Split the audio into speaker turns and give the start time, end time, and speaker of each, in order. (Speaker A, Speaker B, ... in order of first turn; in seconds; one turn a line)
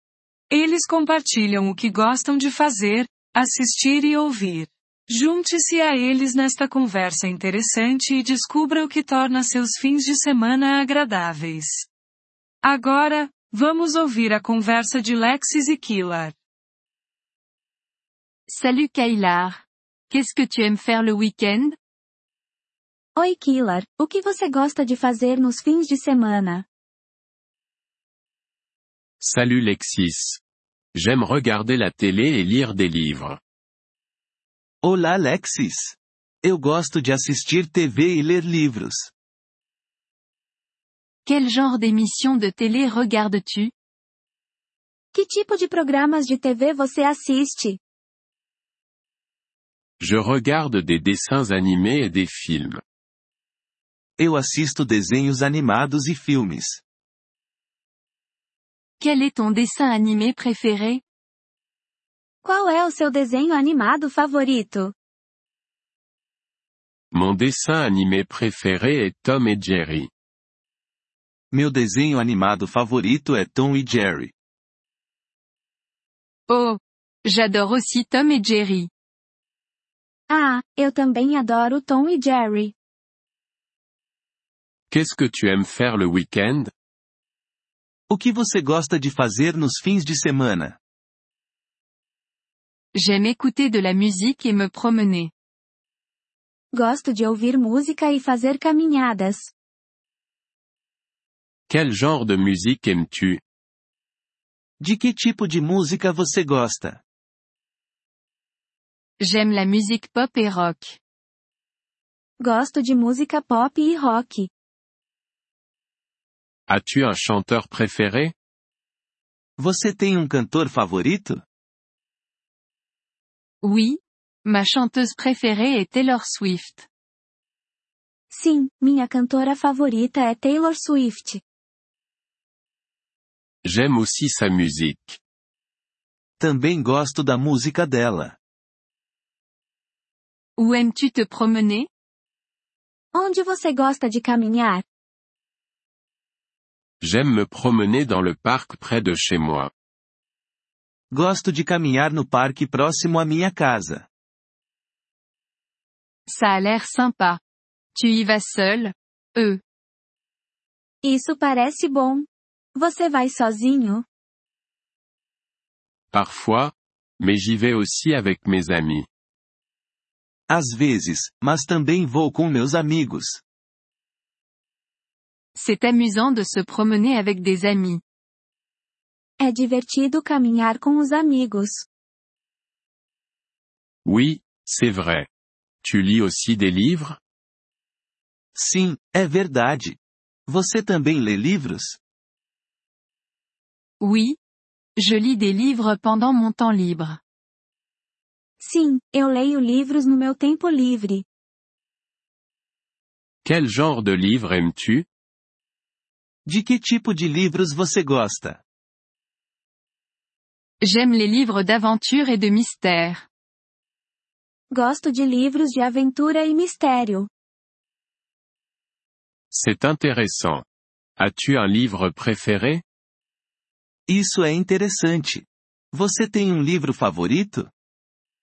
Speaker A: 0.5-11.9
Speaker A: 12.6-16.4
Speaker B: 18.5-21.8
Speaker C: 23.2-26.7
Speaker D: 29.2-30.4
Speaker D: 30.9-33.4
Speaker E: 34.8-39.1
Speaker B: 41.3-43.7
Speaker C: 45.1-47.8
Speaker D: 50.0-52.8
Speaker E: 54.2-56.8
Speaker B: 59.0-61.0
Speaker C: 62.4-64.9
Speaker D: 67.1-70.1
Speaker E: 71.5-74.3
Speaker B: 76.5-78.9
Speaker C: 80.3-82.8
Speaker D: 84.9-86.7
Speaker E: 88.1-90.8
Speaker B: 93.0-95.3
Speaker C: 96.7-99.5
Speaker D: 101.7-103.4
Speaker E: 104.8-107.0
Speaker B: 109.2-111.0
Speaker C: 112.4-114.5
Speaker D: 116.7-118.3
Speaker E: 119.6-121.4
Speaker B: 123.6-126.9
Speaker C: 128.3-131.4
Speaker D: 133.6-135.2
Speaker E: 136.4-138.4
Speaker B: 140.6-141.9
Speaker C: 143.1-144.8
Speaker D: 147.0-149.7
Speaker E: 151.1-154.1
Speaker B: 156.3-157.4
Speaker B: 157.9-159.6
Speaker C: 161.0-164.1
Speaker D: 166.1-169.1
Speaker E: 170.5-173.4
Speaker B: 175.6-178.0
Speaker C: 179.4-181.9
Speaker D: 184.1-185.3
Speaker D: 185.8-187.2
Speaker E: 188.6-192.0
Speaker B: 194.0-194.4
Speaker B: 195.0-197.2
Speaker C: 198.6-201.3
Speaker D: 203.4-205.1
Speaker E: 206.5-208.6
Speaker B: 210.8-213.3
Speaker C: 214.7-217.3
Speaker D: 219.5-220.6
Speaker D: 221.2-222.8
Speaker E: 224.1-227.7